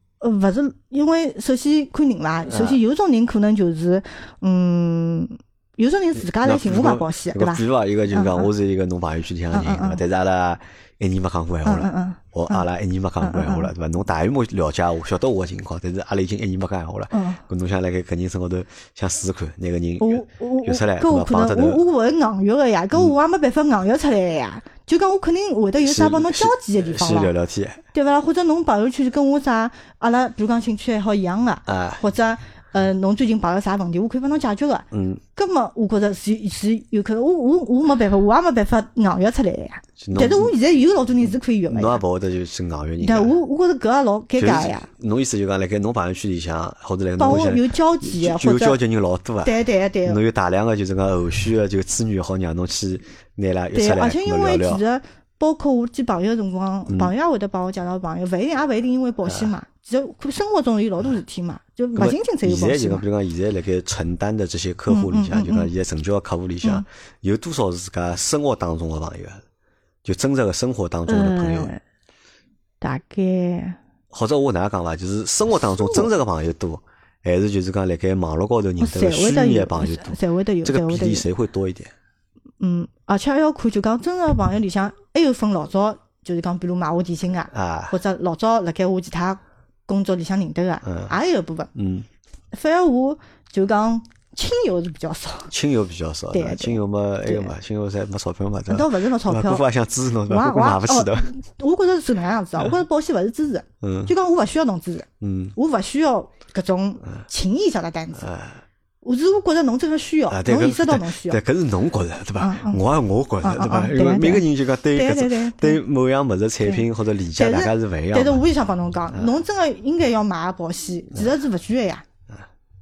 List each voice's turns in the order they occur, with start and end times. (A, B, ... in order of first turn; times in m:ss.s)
0:00.2-0:08.5 A
0:02.5-0:02.8 B
0:06.3-0:21.8 B
0:09.5-0:10.0 A
0:11.6-0:12.7 A
0:13.2-0:13.7 A
0:17.1-0:17.4 A
0:20.0-0:27.3 A
0:25.8-0:27.8 B
0:27.9-0:42.0 A
0:31.7-0:32.0 B
0:34.9-0:35.2 B
0:40.0-0:40.5 B
0:41.7-0:43.4 B
0:43.0-0:44.9 A
0:44.4-0:54.8 B
0:47.2-0:48.8 A
0:49.4-0:50.2 A
0:53.7-1:03.0 A
0:56.9-0:57.1 B
1:02.0-1:09.4 B
1:04.9-1:05.7 A
1:10.0-1:11.7 B
1:11.1-1:11.8 A
1:12.8-1:13.8 A
1:14.1-1:21.9 B
1:15.8-1:16.1 A
1:18.8-1:21.3 A
1:22.6-1:31.7 A
1:27.5-1:28.0 B
1:30.8-1:31.1 B
1:31.8-1:32.1 B
1:32.5-1:35.5 A
1:35.5-1:41.3 B
1:36.3-1:37.5 A
1:38.7-1:39.7 A
1:40.3-1:48.3 A
1:43.8-1:44.1 B
1:45.2-1:45.6 B
1:48.2-1:48.6 B
1:49.0-1:51.4 A
1:50.3-1:58.4 B
1:52.4-1:52.8 A
1:53.4-1:55.8 A
1:56.6-2:02.0 A